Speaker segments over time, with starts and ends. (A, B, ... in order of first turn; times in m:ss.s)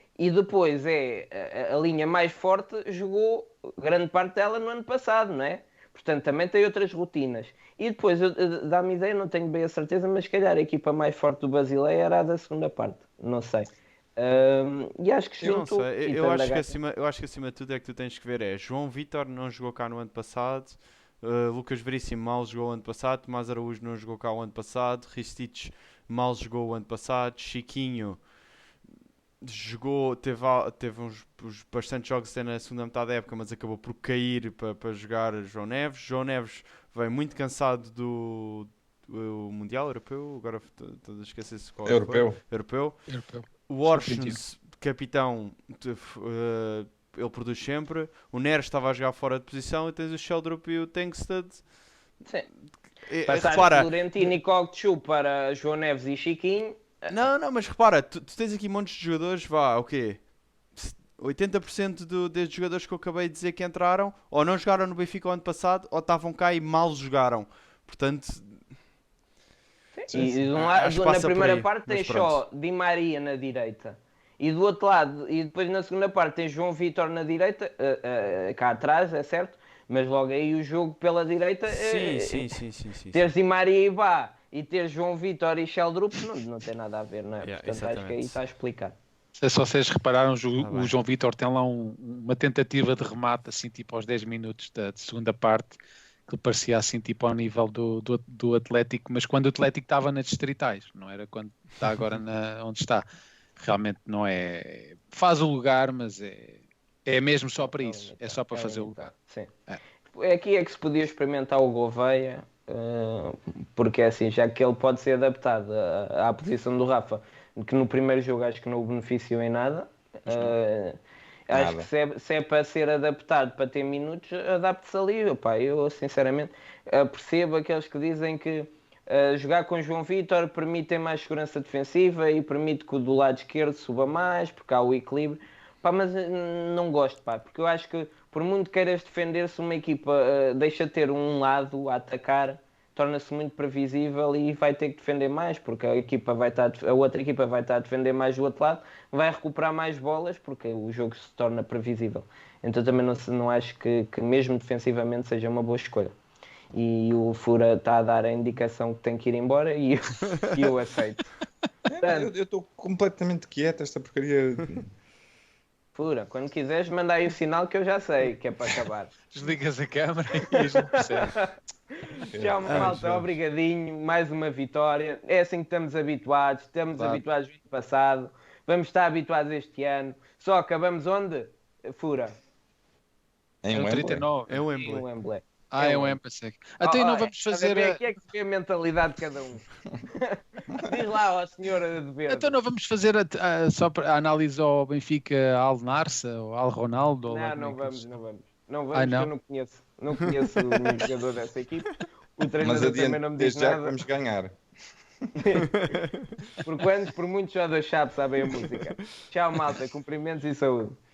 0:00.2-0:16.8 A
0:15.4-0:28.3 B
0:29.4-0:51.7 B
0:41.8-0:42.4 C
0:43.1-0:44.4 D
0:52.7-0:53.9 B
0:53.2-0:57.1 A
0:57.1-1:08.7 B
1:10.0-1:22.5 A
1:10.5-1:12.4 B
1:21.7-1:23.2 B
1:23.1-1:29.0 A
1:27.4-1:28.4 B
1:29.4-1:43.0 D
1:30.6-1:30.9 B
1:43.6-1:49.1 D
1:47.6-1:49.6 A
1:50.1-2:36.1 A
2:00.3-2:00.6 C
2:01.5-2:01.9 C
2:36.7-2:41.4 A
2:41.9-2:44.9 C
2:42.0-2:42.3 A
2:46.0-2:49.1 A
2:49.3-2:51.4 D
2:50.6-2:51.5 A
2:52.2-3:02.4 A
2:52.3-2:53.3 C
2:52.7-2:53.0 B
2:57.0-2:57.2 D
3:03.6-3:04.3 C
3:03.7-3:05.0 D
3:04.5-3:05.1 B
3:04.8-3:06.2 A
3:05.7-3:08.0 D
3:06.8-3:12.5 A
3:12.3-3:18.1 D
3:17.3-3:24.0 A
3:18.9-3:19.3 D
3:22.6-3:24.6 C
3:25.4-3:26.0 A
3:25.8-3:26.3 B
3:26.6-3:31.0 A